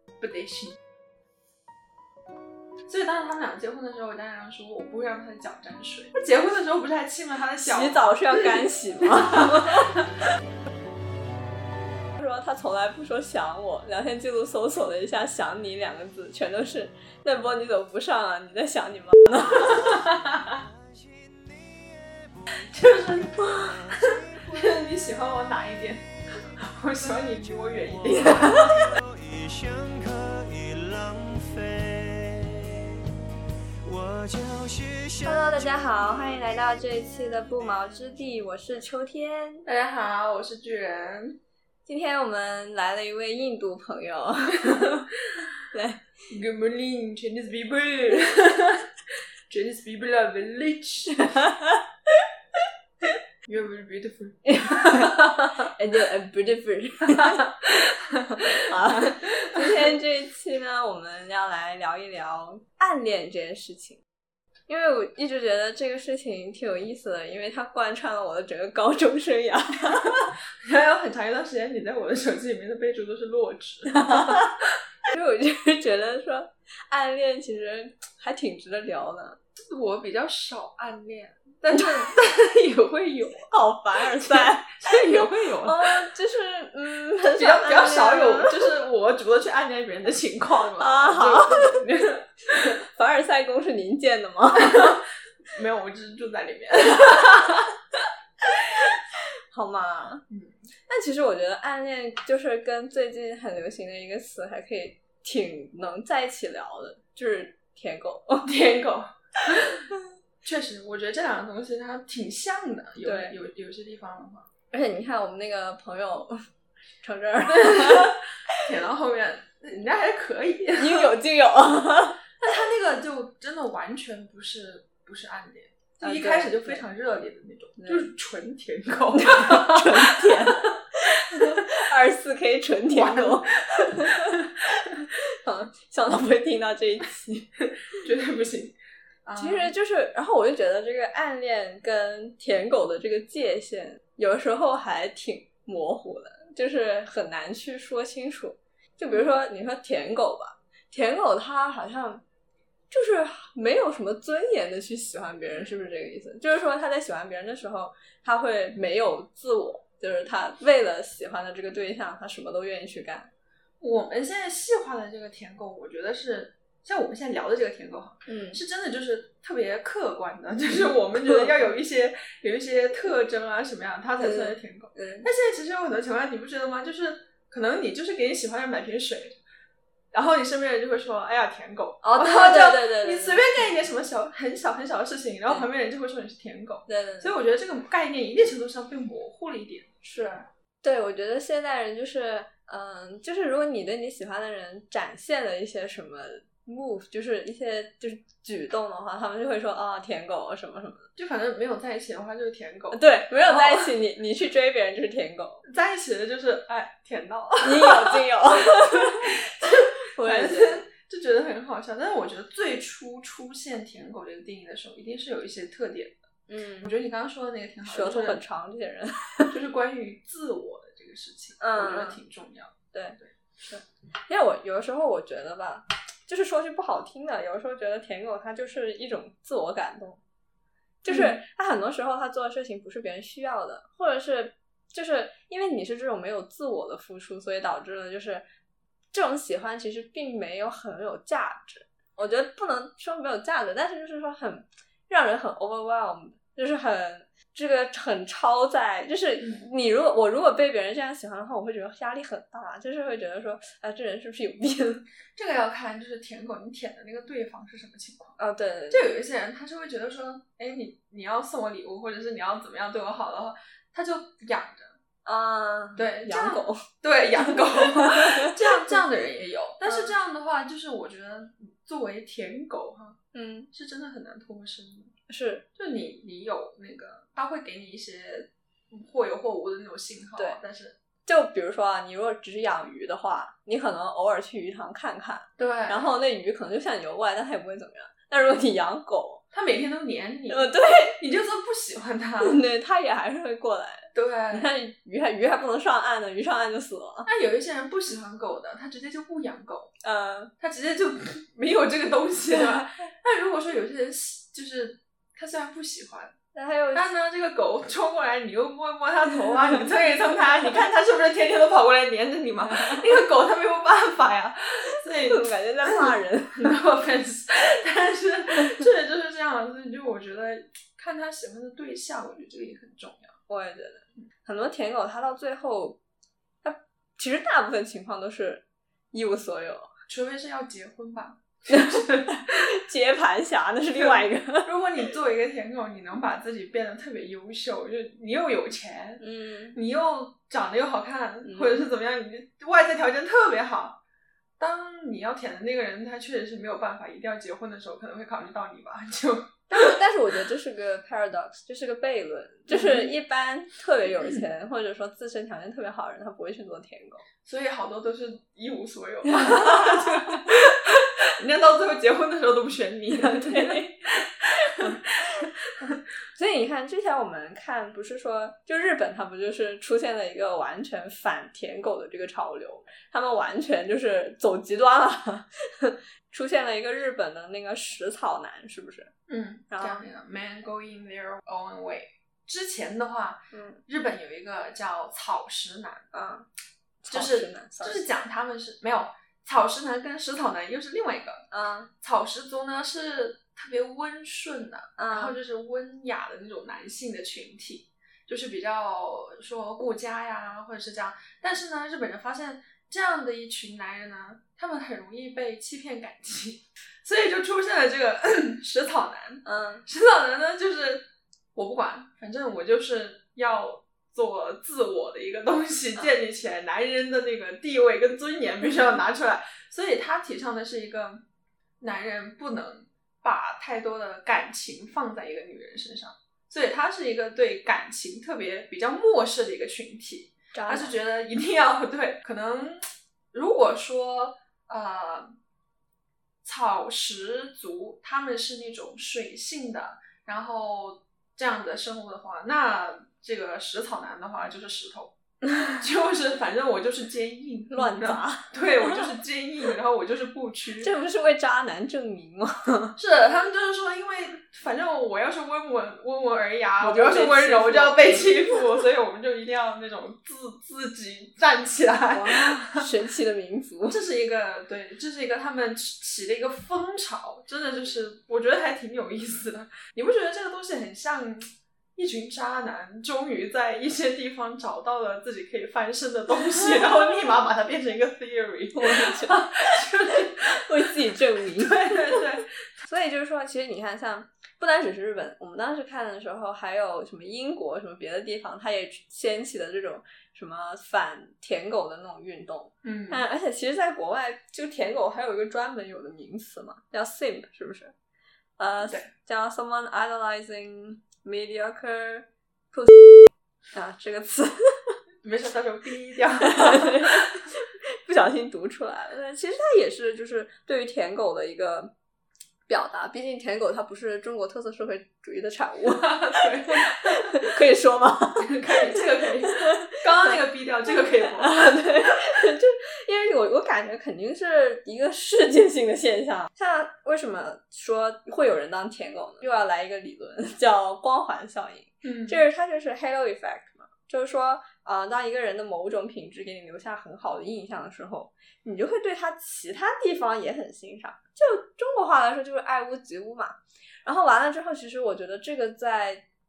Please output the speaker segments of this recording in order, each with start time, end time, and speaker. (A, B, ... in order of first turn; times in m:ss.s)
0:00.2-0:00.8 A
0:02.9-0:10.2 A
0:07.6-0:10.0 B
0:12.2-0:20.0 B
0:19.5-0:20.6 A
0:20.5-0:22.6 C
0:22.7-0:29.0 A
0:23.6-0:24.6 C
0:28.1-0:33.0 C
0:33.8-0:36.2 C
0:35.2-0:39.6 B
0:39.6-0:41.4 A
0:41.9-0:45.0 B
0:44.7-0:45.1 A
0:45.7-0:46.1 B
0:46.3-0:48.9 A
0:49.5-0:51.4 A
0:51.5-0:51.8 B
0:53.5-0:55.7 A
0:54.5-0:57.5 B
0:57.1-0:59.8 A
0:58.4-1:04.0 B
1:04.7-1:10.3 B
1:10.6-1:14.6 A
1:14.1-1:14.5 B
1:15.1-1:19.4 B
1:19.7-1:26.1 A
1:21.7-1:22.2 B
1:23.5-1:28.7 B
1:27.3-1:32.8 A
1:30.8-1:31.8 B
1:32.8-1:35.0 B
1:34.6-1:37.8 A
1:38.7-1:40.2 B
1:40.3-1:40.6 A
1:40.9-1:48.5 B
1:48.4-1:49.9 A
1:50.4-1:54.5 A
1:53.0-1:53.4 B
1:54.7-1:56.4 B
1:57.0-1:58.2 B
1:57.4-2:01.1 A
2:00.8-2:02.2 B
2:02.4-2:11.7 A
2:06.0-2:06.8 B
2:07.8-2:08.1 B
2:09.1-2:17.5 B
2:12.9-2:14.6 A
2:17.8-2:19.7 A
2:19.4-2:32.2 B
2:32.9-2:43.3 B
2:43.8-2:59.4 A
2:48.3-2:48.6 B
2:51.2-2:51.6 B
2:54.2-2:55.3 B
3:00.1-3:09.9 A
3:02.0-3:03.4 B
3:06.9-3:07.3 B
3:10.0-3:21.1 B
3:21.2-3:23.9 A
3:22.9-3:25.6 B
3:25.6-3:36.3 A
3:27.6-3:29.3 B
3:30.1-3:30.8 B
3:36.5-3:36.9 B
3:36.8-3:38.4 A
3:37.9-3:39.6 B
3:39.5-3:43.3 A
3:41.6-3:42.2 B
3:42.9-3:50.2 B
3:51.0-3:58.4 B
3:51.1-3:51.4 A
3:59.1-4:15.0 B
4:09.4-4:09.7 A
4:15.4-4:18.4 A
4:18.4-4:19.1 B
4:18.9-4:25.0 A
4:25.2-4:26.8 B
4:26.0-4:33.2 A
4:27.4-4:29.0 B
4:29.9-4:30.1 B
4:33.3-4:33.7 B
4:33.7-4:35.1 A
4:35.3-4:35.7 B
4:35.8-4:41.0 A
4:41.3-4:49.4 B
4:45.6-4:46.1 A
4:49.5-4:52.6 A
4:50.5-4:51.2 B
4:52.4-4:57.3 B
4:54.1-4:54.7 A
4:57.3-4:59.9 A
5:00.0-5:00.5 B
5:00.6-5:06.4 A
5:06.5-5:07.1 B
5:06.9-5:23.4 A
5:12.7-5:13.0 B
5:15.1-5:16.8 B
5:23.5-5:26.0 B
5:26.6-5:29.9 B
5:30.1-5:32.6 A
5:31.7-5:34.7 B
5:33.9-5:44.0 A
5:39.2-5:39.8 B
5:41.4-5:41.9 B
5:44.6-5:50.0 A
5:49.7-5:57.2 B
5:52.7-5:53.1 A
5:57.4-6:06.0 A
5:59.3-6:00.3 B
6:03.1-6:03.9 B
6:06.4-6:19.1 B
6:19.3-6:26.1 A
6:19.7-6:20.0 B
6:23.5-6:23.8 B
6:26.1-6:26.5 B
6:27.0-6:28.1 B
6:27.1-6:31.5 A
6:31.5-6:31.9 B
6:32.0-7:01.2 A
6:35.0-6:35.4 B
6:49.5-6:49.8 B
7:01.8-7:15.4 A
7:10.5-7:11.0 B
7:16.4-7:30.9 A
7:27.7-7:29.2 B
7:30.8-7:33.0 B
7:33.0-7:42.9 A
7:36.8-7:38.8 B
7:42.1-7:44.0 B
7:43.9-8:02.5 A
7:56.3-7:57.1 B
7:58.7-8:02.2 B
8:02.8-8:17.9 B
8:12.8-8:13.2 A
8:18.6-8:25.0 B
8:25.2-8:27.4 A
8:26.4-8:31.9 B
8:32.7-8:36.5 B
8:35.8-8:37.4 A
8:37.0-8:39.0 B
8:38.4-8:41.7 A
8:40.9-9:06.2 B
8:52.0-8:52.4 A